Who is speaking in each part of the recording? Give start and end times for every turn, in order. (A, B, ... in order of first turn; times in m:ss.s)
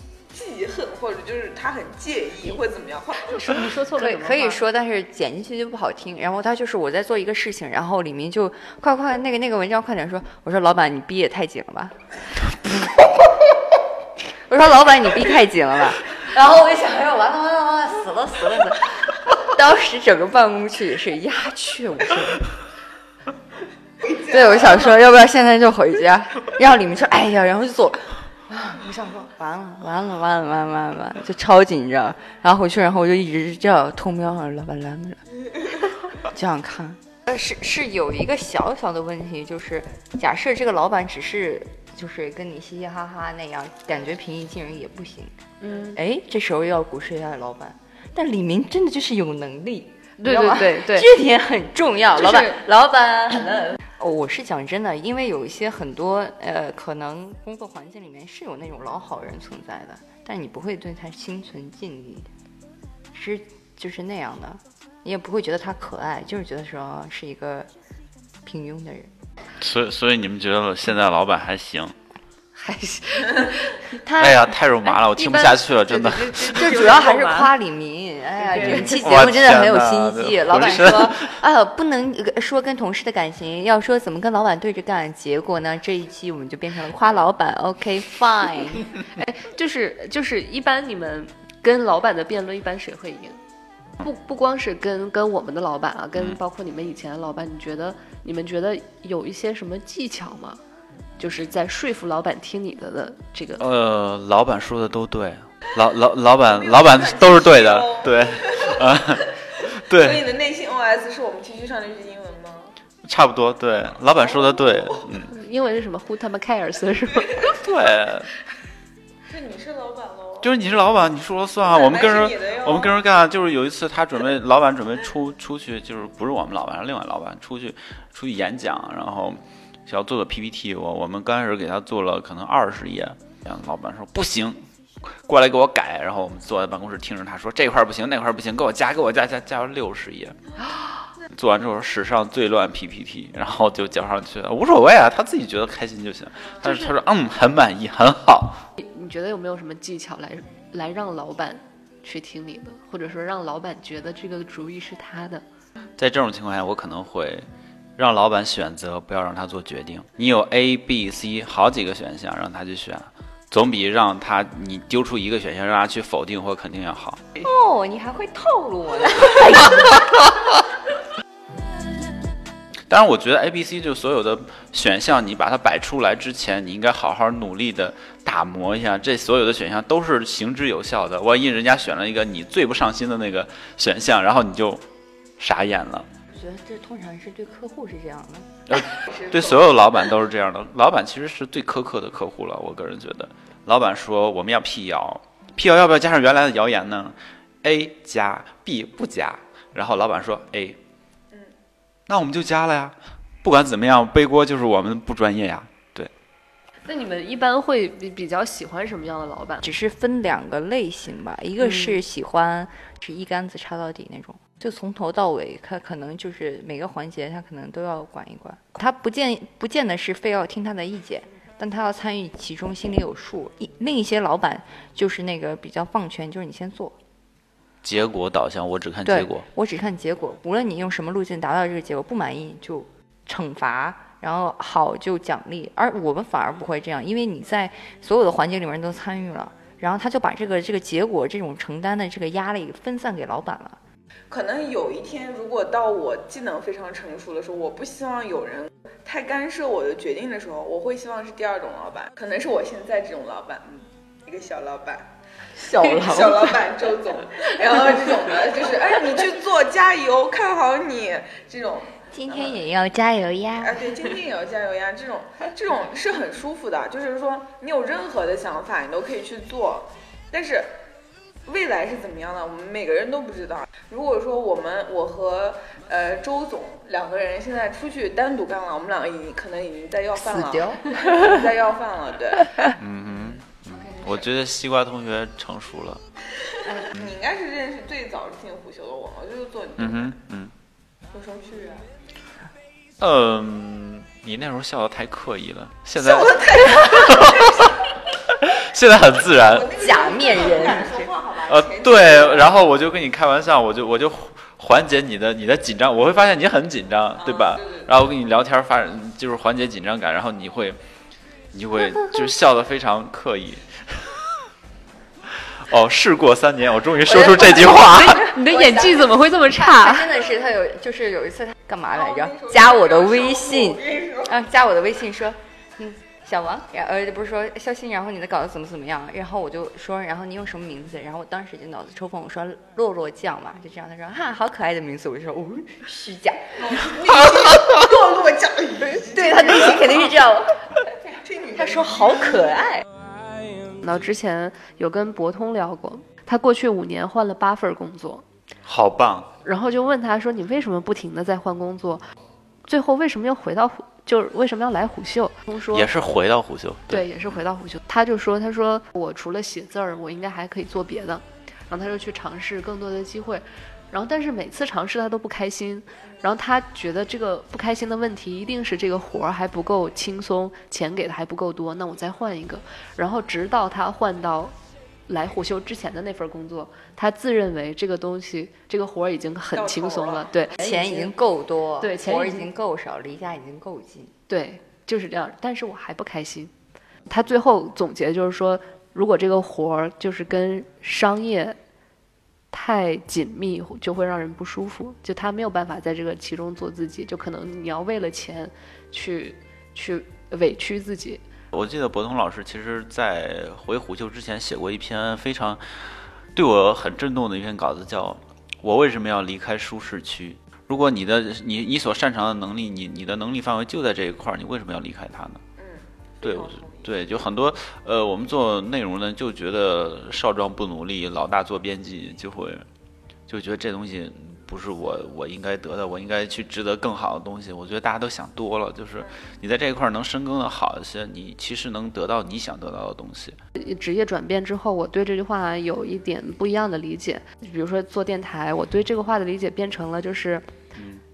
0:00.3-0:03.3 A
0:03.2-0:04.6 B
0:04.0-0:12.0 C
0:12.6-0:13.0 C
0:14.5-0:22.4 C
0:24.0-0:35.2 C
0:36.1-1:02.3 C
0:45.6-0:46.0 B
0:50.2-0:51.1 B
0:52.2-0:52.6 B
1:03.1-1:07.7 C
1:08.4-1:09.1 C
1:09.6-1:11.9 D
1:12.5-1:14.3 B
1:14.2-1:16.8 D
1:14.8-1:17.5 B
1:16.5-1:28.9 C
1:18.4-1:19.0 B
1:18.6-1:21.4 D
1:29.1-1:33.4 B
1:34.0-1:40.6 B
1:41.2-1:43.6 B
1:43.6-1:50.3 D
1:46.4-1:49.2 A
1:49.9-1:52.8 A
1:53.0-1:55.3 D
1:54.2-1:55.0 A
1:55.3-1:57.5 B
1:57.4-1:58.3 D
1:59.3-2:00.5 A
2:00.4-2:20.4 D
2:01.7-2:03.0 A
2:21.3-2:28.6 D
2:26.6-2:26.9 B
2:28.8-2:35.4 B
2:36.0-2:37.5 D
2:38.0-2:47.2 D
2:47.4-2:50.2 C
2:52.9-3:04.8 D
3:05.4-3:06.1 D
3:06.3-3:08.8 C
3:08.7-3:20.8 D
3:22.1-3:26.1 D
3:26.9-3:29.6 B
3:29.6-3:47.0 C
3:31.7-3:32.0 B
3:47.8-3:49.4 D
3:49.0-4:03.8 C
4:04.3-4:15.1 A
4:15.6-4:16.6 C
4:15.7-4:22.6 A
4:22.1-4:23.8 C
4:23.6-4:30.8 A
4:31.5-4:42.6 A
4:40.2-4:41.5 C
4:42.8-4:46.0 D
4:46.7-4:50.1 A
4:49.8-4:50.5 D
4:51.1-4:51.9 A
4:53.0-4:57.7 D
4:56.0-4:57.7 A
4:58.3-4:59.7 D
4:59.5-5:02.7 A
4:59.7-5:01.1 C
5:01.5-5:10.8 D
5:07.2-5:07.9 A
5:11.5-5:14.2 D
5:15.5-5:18.3 D
5:17.1-5:37.1 C
5:17.8-5:20.1 B
5:21.9-5:24.3 A
5:36.6-5:40.1 A
5:39.0-5:42.8 C
5:41.2-5:42.4 A
5:43.8-5:48.2 B
5:48.6-5:49.3 D
5:49.4-5:52.0 B
5:52.6-5:55.9 B
5:55.7-5:57.1 D
5:56.9-6:14.6 B
6:15.1-6:21.1 B
6:19.5-6:20.3 A
6:20.6-6:24.1 C
6:21.8-6:22.5 B
6:24.3-6:26.5 B
6:27.1-6:31.6 B
6:32.5-6:41.2 B
6:41.5-6:45.6 D
6:46.4-6:55.4 D
6:55.6-6:57.2 A
6:56.2-7:02.6 D
7:03.3-7:13.4 D
7:13.6-7:20.4 B
7:20.8-7:21.0 D